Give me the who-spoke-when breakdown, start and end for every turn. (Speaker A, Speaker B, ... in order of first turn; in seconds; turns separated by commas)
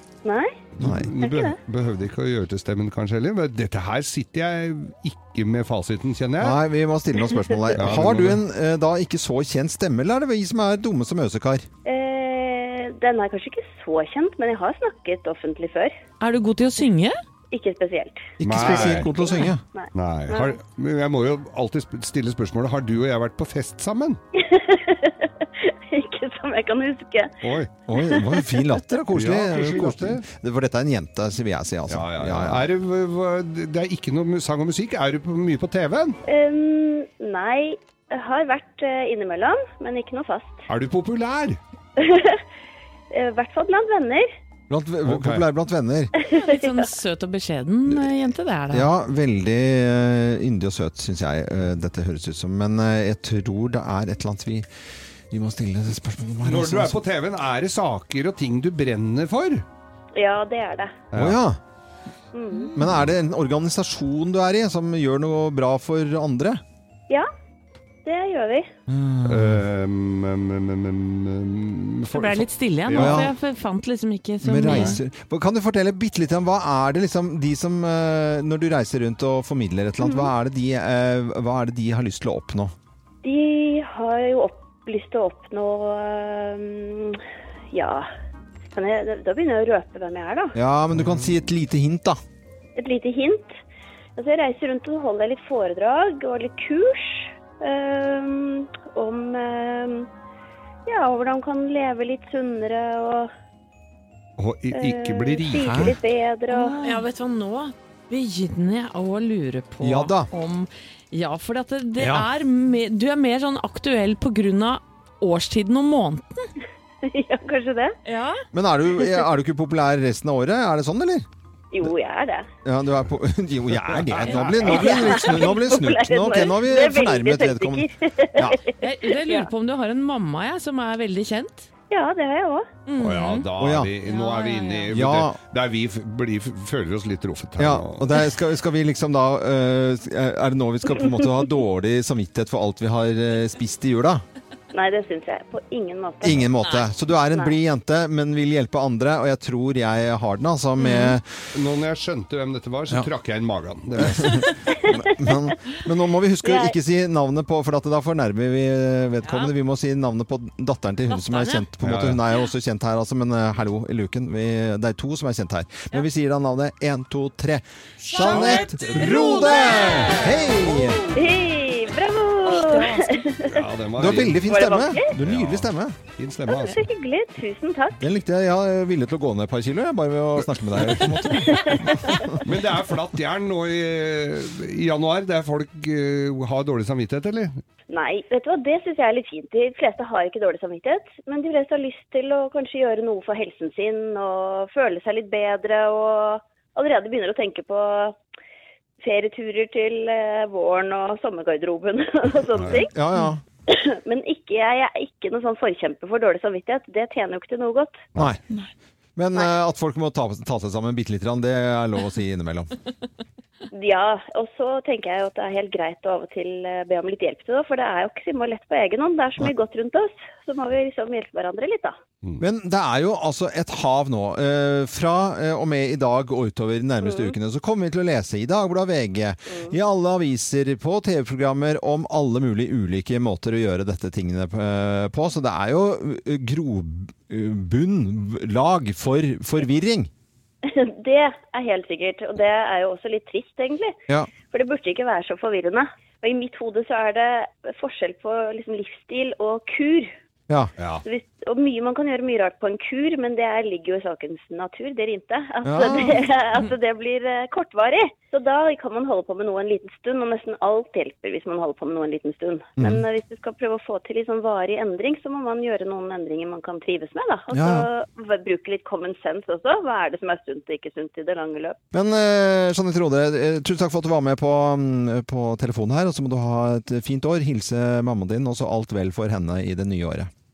Speaker A: 0.2-0.6, Speaker B: 0.8-6.6, Speaker C: 0.8-1.1, Speaker A: 1.2-1.6, Speaker C: 6.4-11.7, Speaker B: 7.7-8.4, Speaker A: 11.8-15.9, Speaker D: 16.2-17.2, Speaker A: 17.5-20.6, Speaker C: 18.4-19.6, Speaker B: 18.4-19.2, Speaker B: 19.9-24.2, Speaker A: 24.3-27.3, Speaker B: 27.4-27.7, Speaker C: 27.9-32.6, Speaker A: 28.0-28.6, Speaker B: 29.1-30.2, Speaker B: 31.9-36.2, Speaker A: 36.2-40.6, Speaker B: 40.7-41.6, Speaker A: 42.0-42.4, Speaker A: 43.1-44.3, Speaker C: 44.7-46.1, Speaker B: 45.0-45.4, Speaker A: 46.2-46.8, Speaker D: 46.3-48.9, Speaker C: 48.7-54.7, Speaker C: 55.3-57.0, Speaker B: 56.4-59.6, Speaker A: 60.1-60.9, Speaker B: 61.1-61.4, Speaker C: 61.1-61.6, Speaker A: 62.3-62.7, Speaker C: 62.7-66.6, Speaker A: 68.0-68.7, Speaker C: 68.9-69.6, Speaker B: 69.2-73.3, Speaker D: 72.1-75.0, Speaker C: 72.9-73.3, Speaker C: 74.4-82.7, Speaker B: 74.7-75.0, Speaker A: 83.2-87.2, Speaker A: 87.7-88.1, Speaker A: 88.7-90.5, Speaker C: 90.5-92.2, Speaker A: 92.8-93.6, Speaker A: 94.2-100.1, Speaker A: 100.8-103.3, Speaker B: 104.4-105.9, Speaker A: 104.7-106.8, Speaker C: 105.6-105.9, Speaker D: 106.5-116.5, Speaker C: 109.8-110.3, Speaker C: 112.0-112.3, Speaker A: 117.0-118.0, Speaker D: 118.0-118.4, Speaker C: 118.5-121.2, Speaker A: 121.7-122.5, Speaker C: 122.6-127.8, Speaker B: 123.8-125.3, Speaker A: 124.6-129.5, Speaker C: 128.3-128.6, Speaker D: 128.8-131.7, Speaker A: 131.9-132.7, Speaker D: 132.9-133.5, Speaker B: 133.0-138.2, Speaker C: 133.6-133.9, Speaker D: 134.1-134.9, Speaker C: 134.9-135.4, Speaker C: 137.6-144.2, Speaker A: 144.7-146.5, Speaker C: 146.2-151.4, Speaker D: 150.8-151.2, Speaker B: 151.5-154.5, Speaker C: 154.0-171.0, Speaker A: 156.4-156.7, Speaker D: 159.2-159.5, Speaker D: 161.1-161.7, Speaker B: 161.8-162.2, Speaker B: 168.0-170.2, Speaker D: 168.3-170.3, Speaker A: 171.1-173.6, Speaker B: 173.5-174.4, Speaker C: 174.0-175.9, Speaker A: 174.5-175.1, Speaker B: 175.2-176.8, Speaker A: 176.5-178.0, Speaker C: 178.0-182.4, Speaker B: 180.7-181.2, Speaker A: 181.5-182.1, Speaker B: 182.4-187.6, Speaker A: 187.9-198.2, Speaker A: 199.0-202.9, Speaker B: 202.5-202.9, Speaker C: 202.9-203.4, Speaker A: 203.7-208.0, Speaker C: 208.2-208.4, Speaker C: 209.2-212.7, Speaker A: 213.7-221.9, Speaker C: 222.4-240.1, Speaker A: 227.0-227.3, Speaker A: 229.5-229.7, Speaker A: 240.6-243.9, Speaker A: 244.5-250.1, Speaker B: 250.8-251.0, Speaker A: 251.0-271.8, Speaker C: 255.6-256.2, Speaker C: 262.8-263.0, Speaker C: 267.5-267.9, Speaker C: 271.9-280.3